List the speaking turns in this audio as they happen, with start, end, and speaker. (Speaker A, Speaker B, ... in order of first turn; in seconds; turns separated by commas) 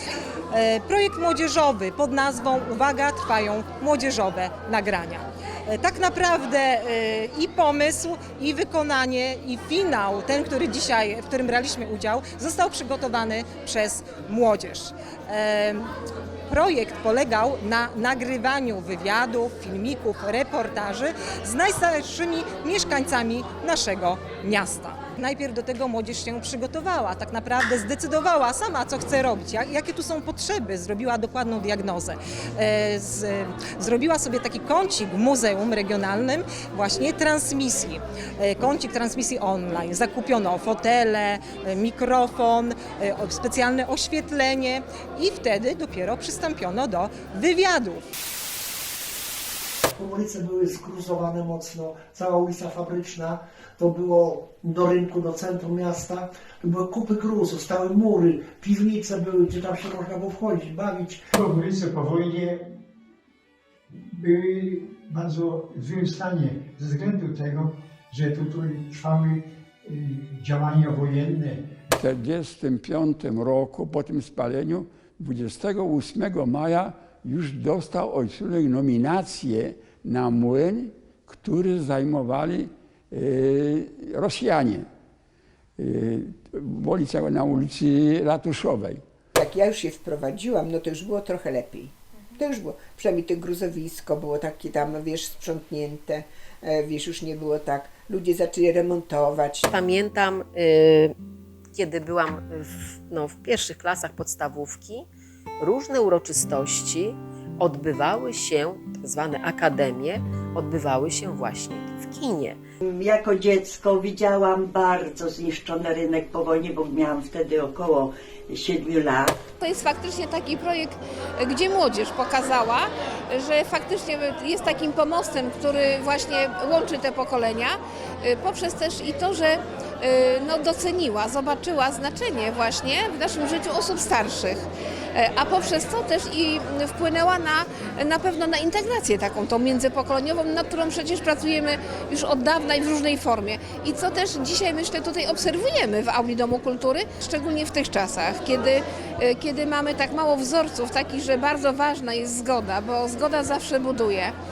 Speaker A: 0.5-15.9, Speaker A: 16.5-48.0, Speaker B: 50.0-61.2, Speaker C: 61.4-62.7, Speaker C: 64.2-71.7, Speaker D: 71.9-84.9, Speaker D: 85.8-89.0, Speaker E: 89.3-99.7, Speaker F: 99.7-101.2, Speaker F: 101.7-105.1, Speaker F: 105.6-112.6, Speaker G: 112.9-119.3, Speaker H: 119.6-154.3